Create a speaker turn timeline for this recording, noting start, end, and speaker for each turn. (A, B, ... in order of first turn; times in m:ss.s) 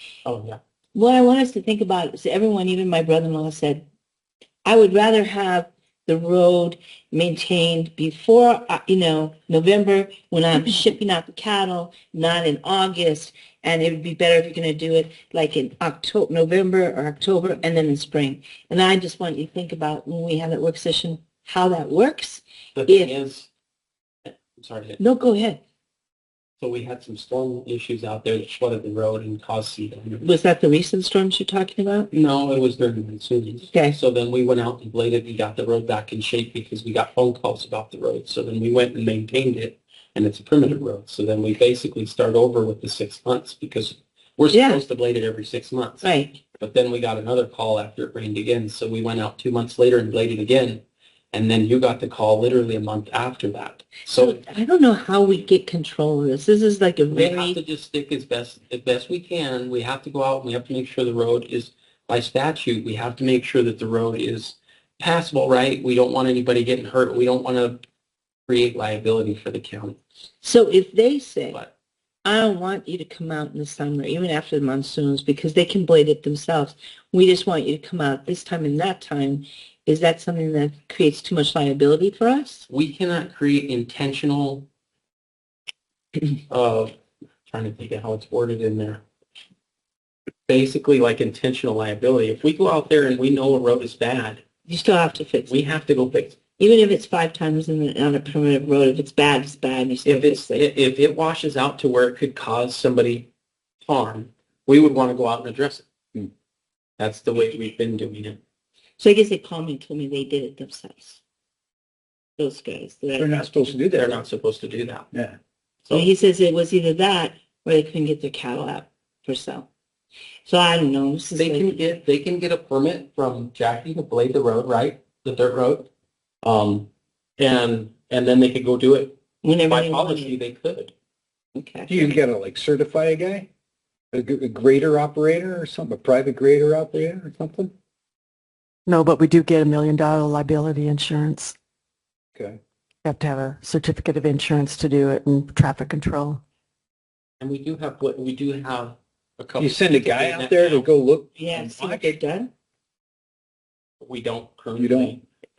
0:00.2-0:00.6 A
0:00.9-0:03.9 B
0:04.6-0:23.2 B
0:22.8-0:23.5 A
0:24.2-0:25.0 A
0:25.0-0:25.6 B
0:26.6-0:30.2 A
0:30.2-0:32.1 B
0:32.1-0:54.4 A
0:33.7-0:34.0 B
0:44.5-0:44.8 B
0:46.0-0:46.4 B
0:54.1-0:57.6 B
0:57.1-1:07.8 A
1:08.5-1:10.0 A
1:10.4-1:11.6 B
1:12.2-1:22.6 B
1:22.7-1:24.7 A
1:26.5-1:26.9 A
1:27.5-1:29.0 A
1:30.5-1:34.4 A
1:34.6-1:35.6 B
1:35.5-1:36.4 A
1:36.6-1:40.6 B
1:40.0-1:43.3 A
1:43.8-1:45.8 A
1:47.0-1:48.4 A
1:49.0-1:51.2 B
1:52.4-1:53.7 B
1:53.2-1:54.2 C
1:53.8-1:55.1 A
1:55.1-1:55.4 C
1:55.9-1:59.7 B
2:00.4-2:01.8 B
2:01.4-2:05.9 A
2:06.4-2:09.2 A
2:09.4-2:10.4 B
2:09.7-2:10.9 A
2:11.5-2:12.0 B
2:11.9-2:13.5 C
2:14.1-2:17.7 C
2:18.8-2:21.5 D
2:23.0-2:26.4 D
2:27.4-2:30.9 A
2:29.6-2:32.1 C
2:31.4-2:32.5 B
2:34.0-2:35.2 A
2:34.8-2:35.2 C